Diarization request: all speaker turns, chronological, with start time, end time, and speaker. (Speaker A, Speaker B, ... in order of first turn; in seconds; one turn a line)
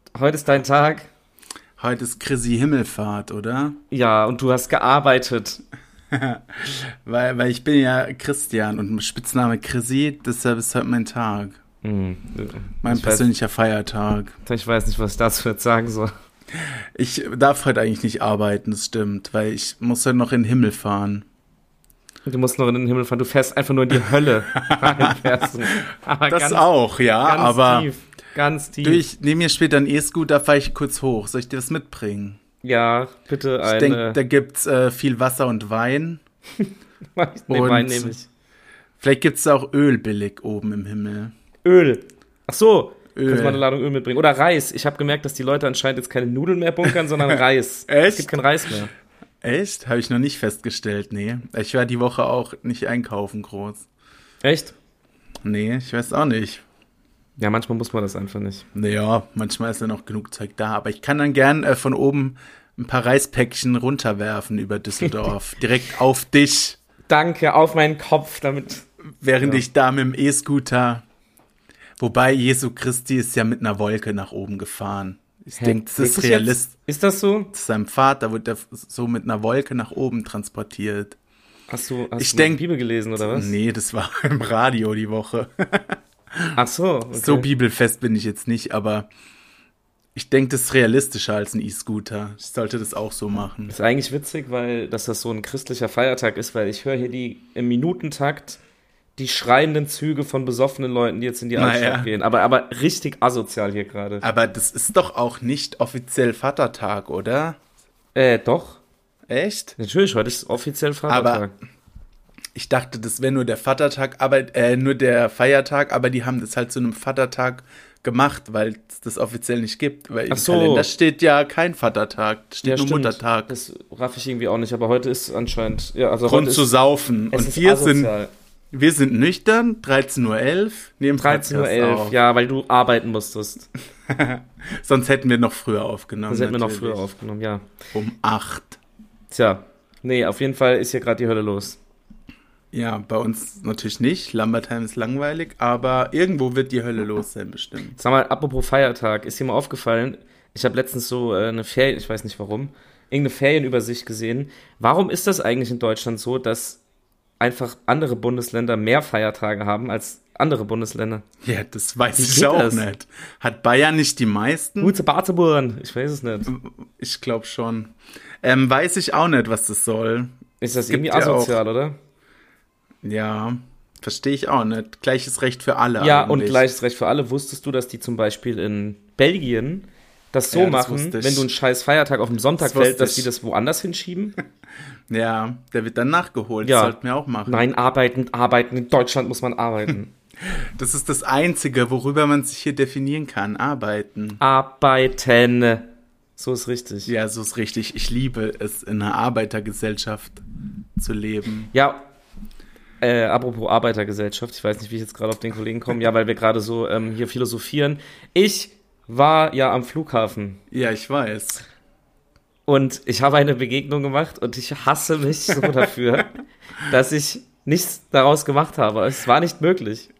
Speaker A: 0.1-1.1
Speaker B: 1.8-3.8
Speaker A: 3.9-5.6
Speaker B: 6.1-11.6
Speaker A: 11.8-13.3
Speaker B: 12.8-14.3
Speaker A: 14.4-16.1
Speaker B: 16.6-21.2
Speaker A: 22.2-26.7
Speaker B: 24.6-27.9
Speaker A: 27.2-29.0
Speaker B: 28.8-32.4
Speaker A: 32.6-34.2
Speaker B: 33.6-36.2
Speaker A: 36.6-38.3
Speaker B: 37.5-38.1
Speaker B: 39.0-41.3
Speaker A: 41.6-48.9
Speaker B: 43.1-43.6
Speaker B: 47.2-48.4
Speaker B: 49.4-53.9
Speaker A: 54.4-54.8
Speaker B: 55.4-56.6
Speaker A: 57.4-58.7
Speaker B: 58.8-66.8
Speaker A: 67.1-68.8
Speaker B: 69.2-71.0
Speaker B: 72.0-76.7
Speaker A: 75.6-77.5
Speaker B: 77.5-81.2
Speaker A: 81.7-83.5
Speaker B: 82.2-82.6
Speaker B: 83.2-86.6
Speaker A: 86.6-87.5
Speaker B: 87.1-89.1
Speaker B: 90.1-93.8
Speaker A: 93.7-98.6
Speaker A: 99.2-104.2
Speaker B: 101.6-102.1
Speaker B: 104.2-107.6
Speaker A: 108.1-108.8
Speaker B: 109.3-109.8
Speaker A: 109.8-111.5
Speaker B: 111.1-111.4
Speaker B: 112.5-123.5
Speaker A: 120.3-120.9
Speaker A: 122.6-126.7
Speaker B: 126.2-128.1
Speaker A: 127.3-128.3
Speaker B: 128.7-132.2
Speaker A: 131.2-133.7
Speaker B: 134.1-137.0
Speaker A: 136.3-137.7
Speaker B: 137.9-138.8
Speaker A: 139.3-141.8
Speaker B: 142.7-148.0
Speaker A: 148.0-156.8
Speaker A: 157.4-161.2
Speaker B: 161.4-164.9
Speaker A: 162.2-162.8
Speaker A: 164.8-166.5
Speaker B: 166.5-171.6
Speaker A: 170.6-172.0
Speaker B: 173.0-176.7
Speaker A: 176.0-184.3
Speaker B: 180.5-181.5
Speaker B: 182.6-183.3
Speaker B: 185.1-187.7
Speaker A: 186.6-190.1
Speaker B: 190.5-194.4
Speaker A: 194.4-197.1
Speaker B: 197.1-200.4
Speaker B: 201.0-201.7
Speaker A: 201.7-202.1
Speaker A: 203.0-210.6
Speaker B: 210.7-211.7
Speaker A: 212.7-216.3
Speaker A: 216.9-220.1